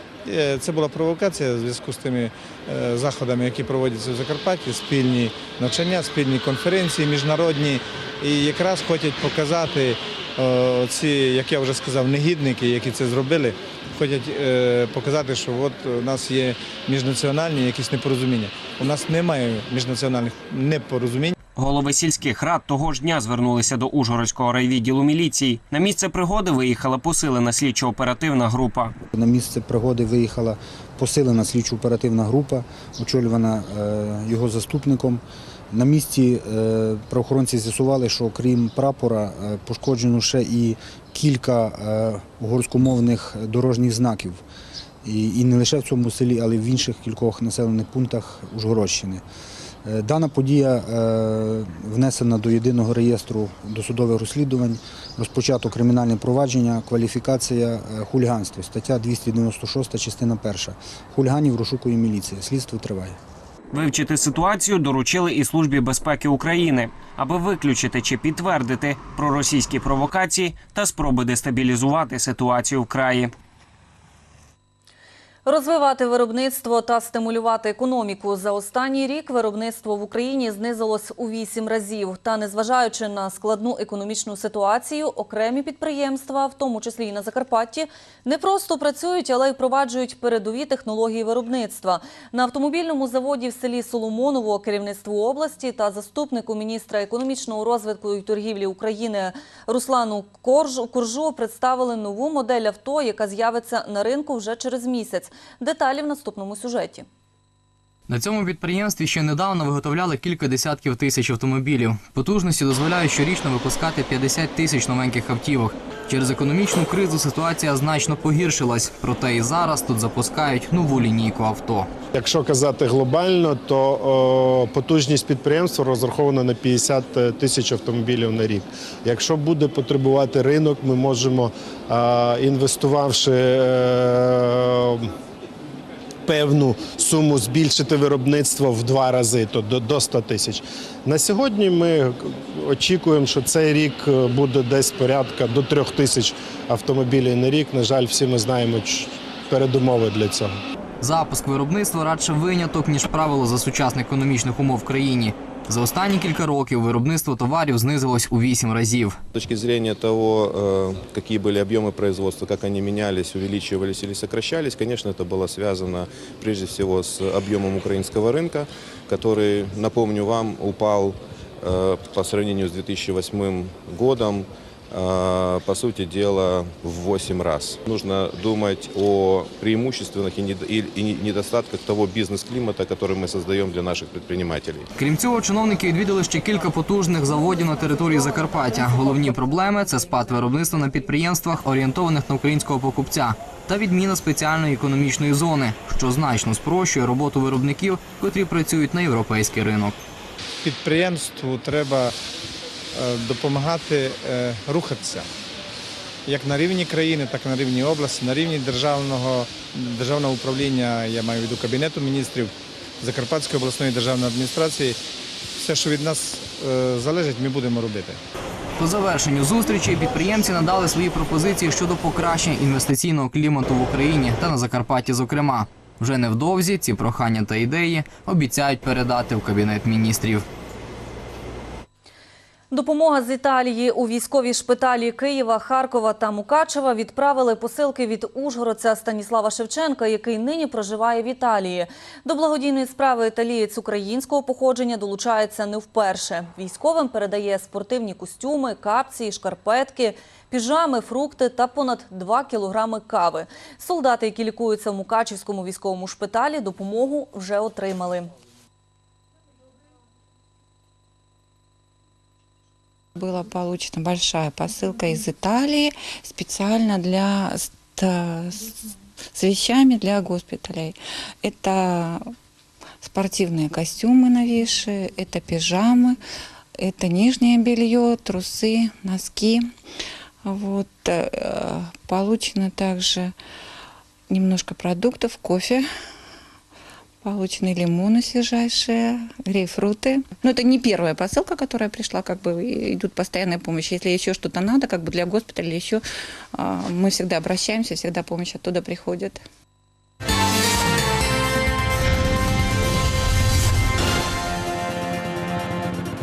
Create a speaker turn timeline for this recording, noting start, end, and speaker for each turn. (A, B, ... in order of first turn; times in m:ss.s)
0:00.2-0:21.4 A
0:21.6-0:28.9 B
0:29.1-0:44.4 C
0:45.0-0:49.2 C
0:49.8-1:03.2 C
1:03.7-1:13.3 B
1:15.4-1:47.0 D
1:48.1-2:01.9 E
2:02.1-2:15.1 F
2:16.2-2:30.5 F
2:31.0-2:39.2 E
2:39.3-3:04.9 G
3:05.0-3:19.9 E
3:20.6-3:22.1 A
3:22.9-3:25.2 A
3:26.2-3:35.0 A
3:35.5-3:38.2 A
3:38.8-3:50.4 E
3:52.7-4:18.3 D
4:23.2-4:28.8 H
4:29.3-4:32.2 H
4:33.0-4:36.2 H
4:36.8-4:39.7 H
4:40.4-4:43.3 H
4:44.3-4:45.8 H
4:47.2-4:56.0 H
4:56.5-4:59.4 H